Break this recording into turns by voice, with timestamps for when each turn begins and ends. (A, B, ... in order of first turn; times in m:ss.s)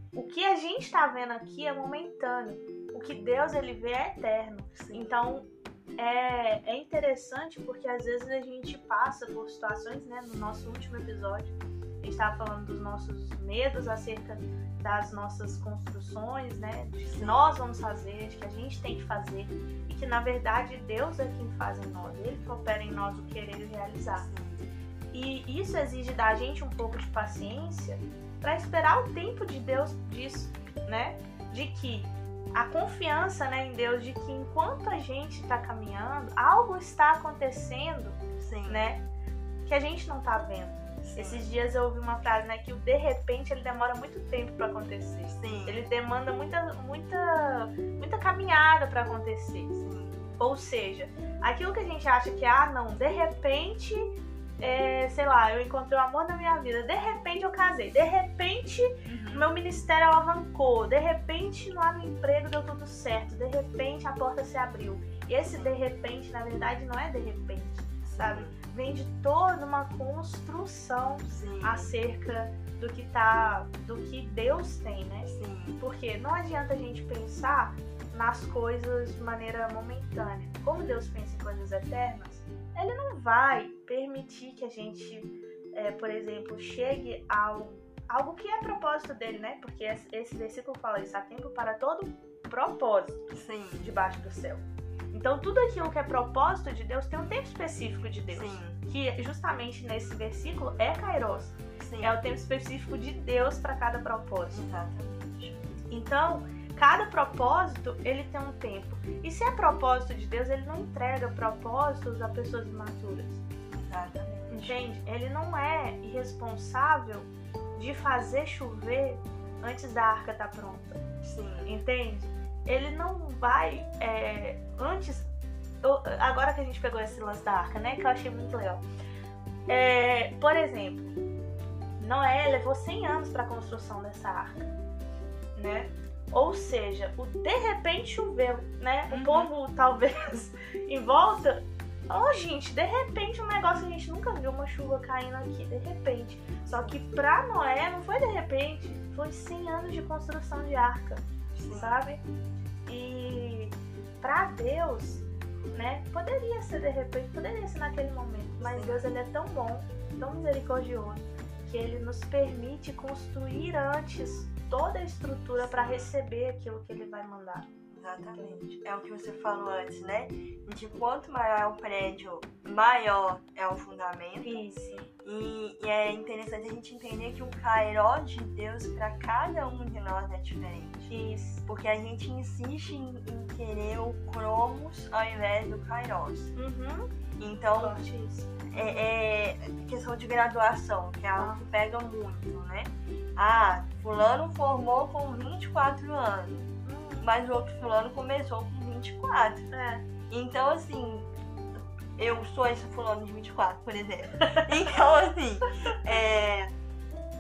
0:00.1-0:24.3 A
0:04.7-0:05.2 B
0:17.0-0:17.4 B
0:24.1-0:24.7 B
0:25.1-0:39.0 A
0:38.4-0:38.8 B
0:39.6-0:49.8 A
0:41.0-0:41.5 B
0:45.2-0:45.8 B
0:49.8-0:50.2 B
0:50.4-1:15.3 A
0:59.0-0:59.5 B
1:05.4-1:05.7 B
1:08.0-1:08.6 B
1:11.2-1:11.9 B
1:15.2-1:15.8 B
1:15.8-1:33.2 A
1:33.3-1:33.9 B
1:33.8-1:44.7 A
1:38.3-1:38.8 B
1:41.8-1:42.2 B
1:44.5-1:45.8 B
1:45.9-1:53.4 A
1:53.7-1:54.8 B
1:54.5-2:01.0 A
2:01.2-2:01.7 B
2:01.6-2:05.3 A
2:05.8-2:08.8 A
2:09.7-2:11.1 A
2:12.0-2:14.7 A
2:15.6-2:32.2 A
2:19.1-2:19.5 B
2:26.6-2:27.0 B
2:31.5-2:32.0 B
2:32.9-2:47.7 A
2:38.6-2:39.1 B
2:45.6-2:46.1 B
2:47.9-2:54.6 B
2:48.3-2:48.7 A
2:54.4-2:55.1 A
2:55.2-3:01.1 B
3:01.1-3:01.6 A
3:01.6-3:06.5 B
3:06.5-3:07.1 A
3:07.4-3:08.0 B
3:07.8-3:09.1 A
3:08.7-3:16.6 B
3:11.3-3:11.6 A
3:16.5-3:17.3 A
3:17.2-3:19.7 B
3:19.7-3:20.0 A
3:20.3-3:21.3 B
3:22.2-3:26.7 B